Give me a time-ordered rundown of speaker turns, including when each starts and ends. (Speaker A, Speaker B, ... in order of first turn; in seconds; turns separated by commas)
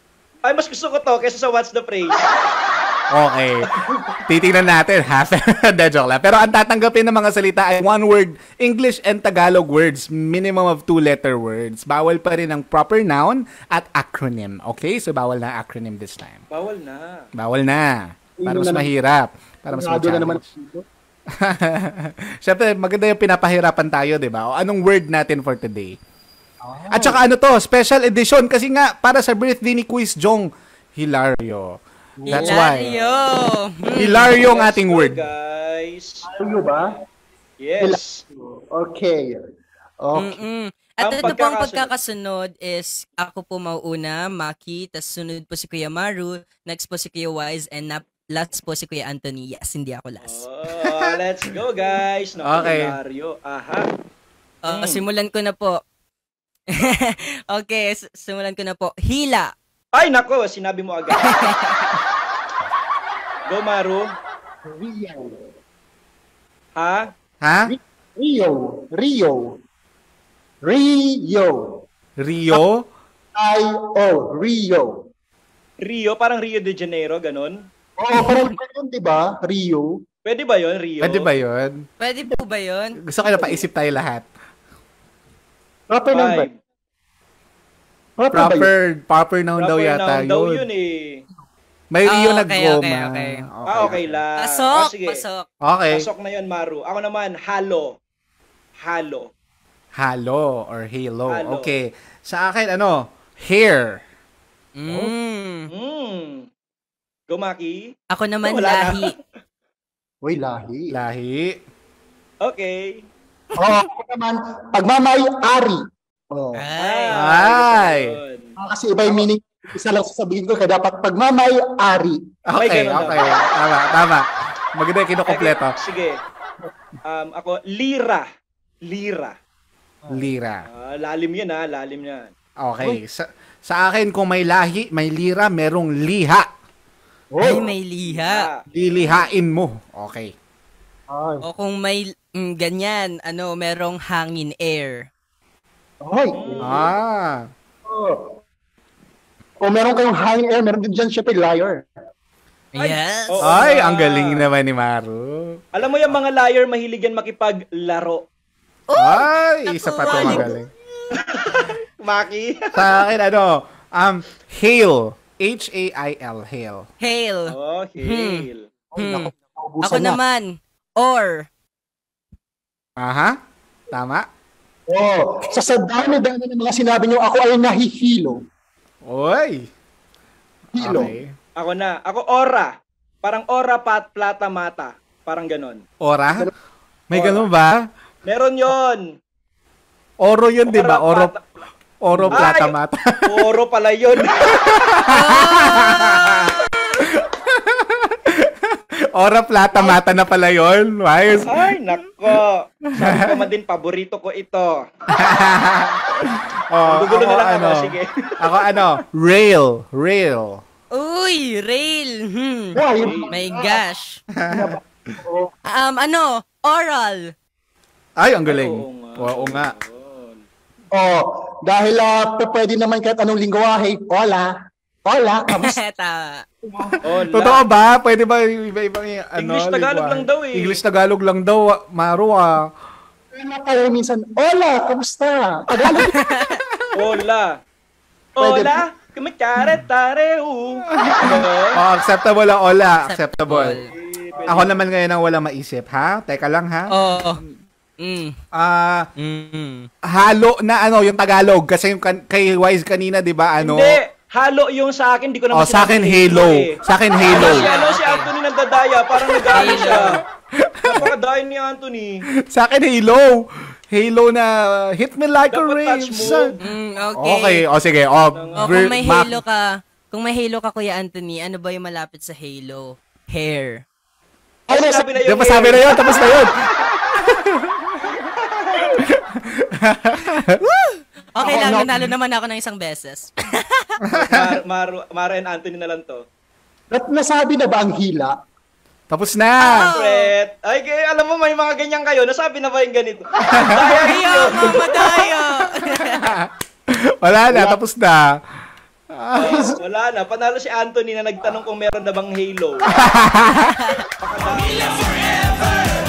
Speaker A: 0.5-2.2, Speaker B: 3.1-3.7, Speaker B: 4.3-16.4, Speaker A: 16.5-17.2, Speaker B: 17.4-20.4, Speaker C: 18.4-18.9, Speaker C: 19.7-20.8, Speaker B: 21.4-26.0, Speaker C: 26.6-27.2, Speaker B: 26.9-31.8, Speaker C: 32.2-32.7, Speaker B: 32.3-33.0, Speaker D: 32.3-34.3, Speaker B: 34.0-35.2, Speaker A: 34.5-36.2, Speaker C: 36.3-36.9, Speaker A: 37.6-38.2, Speaker C: 37.8-39.4, Speaker C: 40.0-40.4, Speaker D: 40.1-50.4, Speaker A: 41.0-41.9, Speaker A: 50.2-53.9, Speaker B: 52.4-53.0, Speaker D: 54.6-55.8, Speaker A: 54.7-55.0, Speaker D: 56.8-59.5, Speaker A: 59.9-61.3, Speaker D: 61.2-61.9, Speaker A: 63.5-64.1, Speaker C: 64.7-65.3, Speaker A: 66.8-67.1, Speaker B: 67.4-67.7, Speaker C: 67.7-69.4, Speaker C: 70.6-71.8, Speaker B: 72.2-72.9, Speaker C: 73.3-74.9, Speaker A: 75.8-77.7, Speaker C: 78.0-80.0, Speaker A: 80.2-81.3, Speaker B: 81.0-81.9, Speaker D: 82.0-83.0, Speaker B: 83.0-84.3, Speaker C: 85.9-86.5, Speaker A: 86.1-86.5, Speaker C: 88.2-88.7, Speaker B: 88.3-90.7, Speaker A: 89.6-91.2, Speaker B: 91.9-94.2, Speaker D: 92.1-93.4, Speaker A: 93.7-95.2, Speaker D: 94.4-95.5, Speaker B: 95.6-96.1, Speaker A: 95.9-97.9, Speaker A: 98.8-99.3, Speaker B: 100.0-104.0, Speaker A: 101.3-101.7, Speaker D: 104.8-105.7, Speaker C: 104.9-105.1, Speaker A: 105.7-106.5, Speaker A: 107.3-107.9, Speaker D: 108.1-109.1, Speaker A: 108.5-109.2, Speaker C: 110.2-111.0, Speaker B: 110.9-111.6, Speaker A: 112.4-113.0, Speaker C: 113.5-115.8, Speaker C: 116.3-116.7, Speaker D: 116.5-117.2, Speaker A: 116.8-118.5, Speaker B: 117.1-118.2, Speaker C: 118.6-122.2, Speaker B: 122.5-125.7, Speaker A: 122.6-123.3, Speaker A: 125.3-126.2, Speaker A: 127.1-128.3, Speaker A: 128.9-129.4, Speaker C: 130.0-130.3, Speaker B: 130.1-130.7, Speaker A: 130.7-132.3, Speaker B: 132.6-136.5, Speaker C: 137.3-137.7, Speaker D: 137.4-138.5, Speaker A: 138.1-139.3, Speaker B: 138.7-140.3, Speaker C: 141.1-141.5, Speaker D: 141.4-145.1, Speaker C: 146.0-146.9, Speaker A: 146.3-146.9, Speaker B: 146.6-147.5, Speaker C: 147.9-148.3, Speaker C: 149.6-151.8, Speaker D: 152.7-153.4, Speaker A: 152.8-154.4, Speaker B: 153.4-155.6, Speaker A: 155.7-158.2, Speaker D: 158.9-160.7, Speaker B: 158.9-160.7, Speaker A: 161.2-162.8, Speaker B: 162.8-166.9, Speaker D: 167.0-169.3, Speaker A: 167.5-168.7, Speaker C: 168.9-170.2, Speaker D: 169.8-171.5, Speaker B: 173.0-173.3, Speaker B: 173.9-174.2, Speaker C: 174.9-178.4, Speaker B: 179.1-179.7, Speaker C: 180.7-181.2, Speaker B: 180.8-181.3, Speaker A: 181.6-182.7, Speaker A: 183.2-185.8, Speaker B: 186.0-186.5, Speaker B: 187.1-187.8, Speaker A: 187.1-187.5, Speaker A: 188.2-189.0, Speaker B: 190.2-191.3, Speaker A: 190.7-191.4, Speaker B: 192.0-193.4, Speaker C: 192.1-192.4, Speaker A: 192.3-192.7, Speaker A: 193.3-194.8, Speaker B: 194.5-196.5, Speaker D: 195.1-196.9, Speaker B: 197.1-201.8, Speaker A: 201.5-204.8, Speaker B: 203.0-203.2, Speaker B: 205.1-210.6, Speaker A: 206.8-208.8, Speaker D: 210.9-212.8, Speaker C: 212.8-213.8, Speaker A: 213.0-213.3, Speaker D: 213.3-214.2, Speaker B: 214.4-214.8, Speaker C: 214.5-215.5, Speaker D: 215.7-217.3, Speaker B: 218.2-219.8, Speaker A: 218.5-220.4, Speaker C: 220.9-224.5, Speaker C: 225.1-225.8, Speaker D: 225.5-226.4, Speaker B: 226.8-232.7, Speaker A: 227.0-227.6, Speaker A: 229.4-230.8, Speaker C: 233.4-236.1, Speaker D: 236.2-236.6, Speaker B: 236.4-236.8, Speaker A: 236.9-237.6, Speaker A: 238.4-241.8, Speaker C: 238.4-238.8, Speaker B: 240.9-243.8, Speaker D: 243.0-243.8, Speaker A: 243.9-244.8, Speaker C: 244.4-244.6, Speaker B: 244.5-246.9, Speaker D: 246.9-247.4, Speaker D: 248.0-248.3, Speaker B: 248.5-249.1, Speaker D: 249.2-249.9, Speaker B: 250.1-254.0, Speaker A: 253.6-256.7, Speaker B: 255.5-257.7, Speaker A: 257.3-260.2, Speaker D: 257.3-258.3, Speaker B: 259.3-261.1, Speaker D: 259.5-260.2, Speaker A: 260.9-262.2, Speaker B: 262.5-266.5, Speaker A: 265.5-266.7, Speaker D: 266.6-267.6, Speaker B: 267.2-269.4, Speaker A: 268.3-268.8, Speaker D: 268.6-273.8, Speaker C: 274.7-275.1, Speaker A: 274.7-276.5, Speaker B: 275.2-278.0, Speaker A: 278.2-278.9, Speaker B: 279.1-280.6, Speaker D: 280.6-283.9, Speaker C: 281.4-281.9, Speaker B: 284.0-284.6, Speaker A: 284.1-286.2, Speaker C: 286.9-288.3, Speaker B: 289.1-289.9, Speaker D: 289.6-290.3, Speaker A: 289.9-294.8, Speaker B: 293.5-294.0, Speaker D: 293.9-296.4, Speaker B: 294.7-295.0, Speaker B: 296.0-296.5, Speaker B: 297.2-298.3, Speaker C: 297.5-297.8, Speaker B: 299.1-299.7, Speaker A: 299.3-302.9, Speaker B: 303.0-303.7, Speaker A: 304.2-305.1